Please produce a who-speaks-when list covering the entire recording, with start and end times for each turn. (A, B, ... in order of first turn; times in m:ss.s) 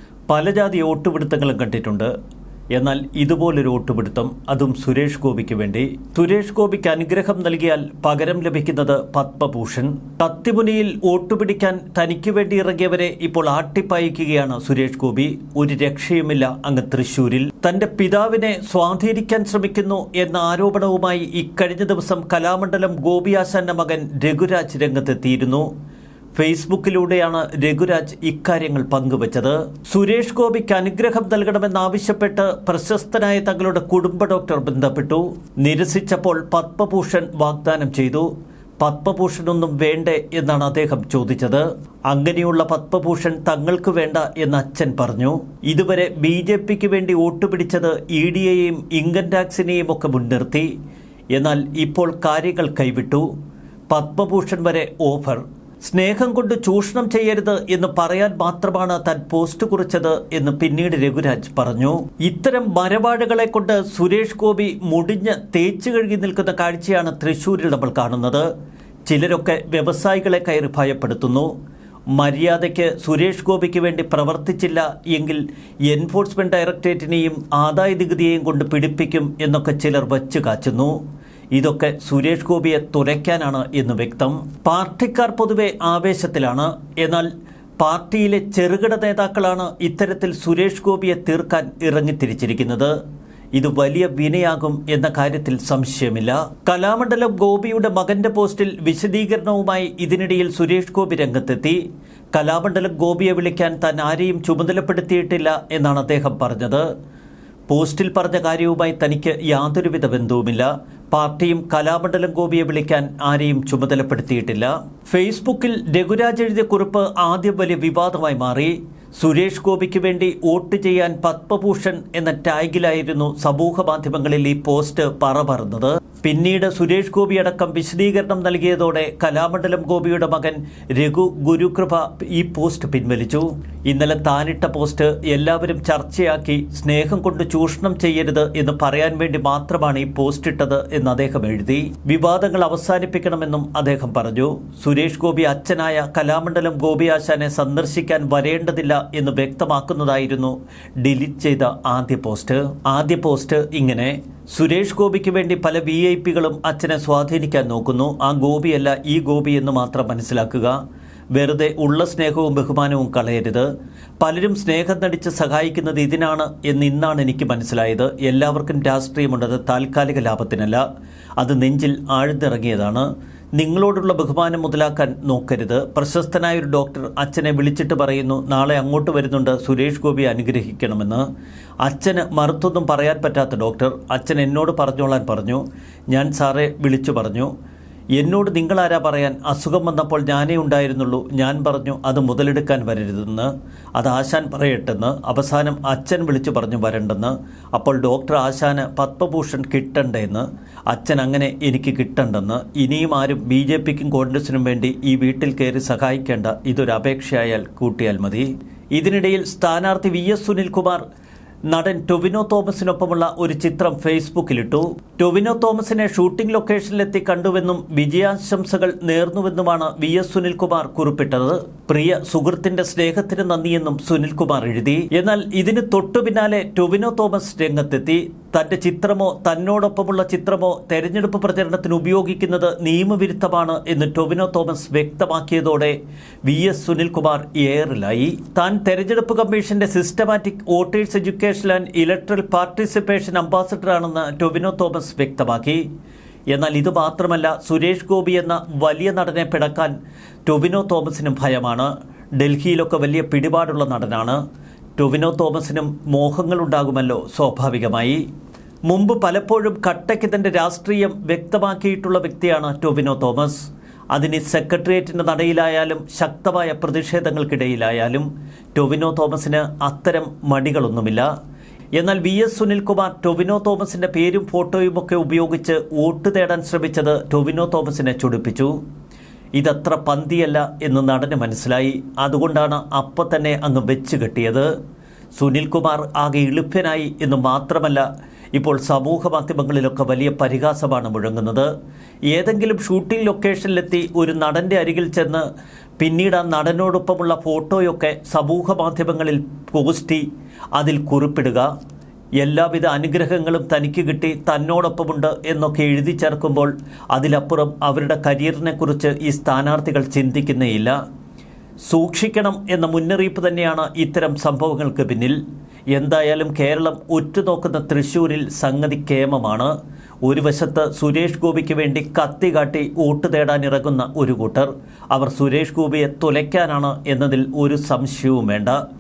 0:00.3-0:02.1 A
0:02.8-0:25.7 A
0:26.3-0:50.7 A
0:51.3-0:53.3 A
0:53.9-1:08.5 A
1:09.0-1:11.5 A
1:12.1-1:21.0 A
1:21.5-1:27.3 A
1:27.8-1:32.9 A
1:33.6-1:41.8 A
1:42.3-1:46.9 A
1:47.7-2:40.8 A
2:41.3-2:43.7 A
2:44.2-2:50.8 A
2:51.4-3:01.2 A
3:01.8-3:07.5 A
3:08.2-3:31.0 A
3:31.7-4:05.8 A
4:06.5-4:09.9 A
4:10.4-4:14.4 A
4:15.0-4:18.2 A
4:18.9-4:31.3 A
4:32.0-4:38.8 A
4:39.6-4:44.7 A
4:45.4-4:51.7 A
4:52.3-4:55.5 A
4:56.0-5:01.7 A
5:02.4-5:11.0 A
5:11.9-5:15.4 A
5:15.9-5:28.8 A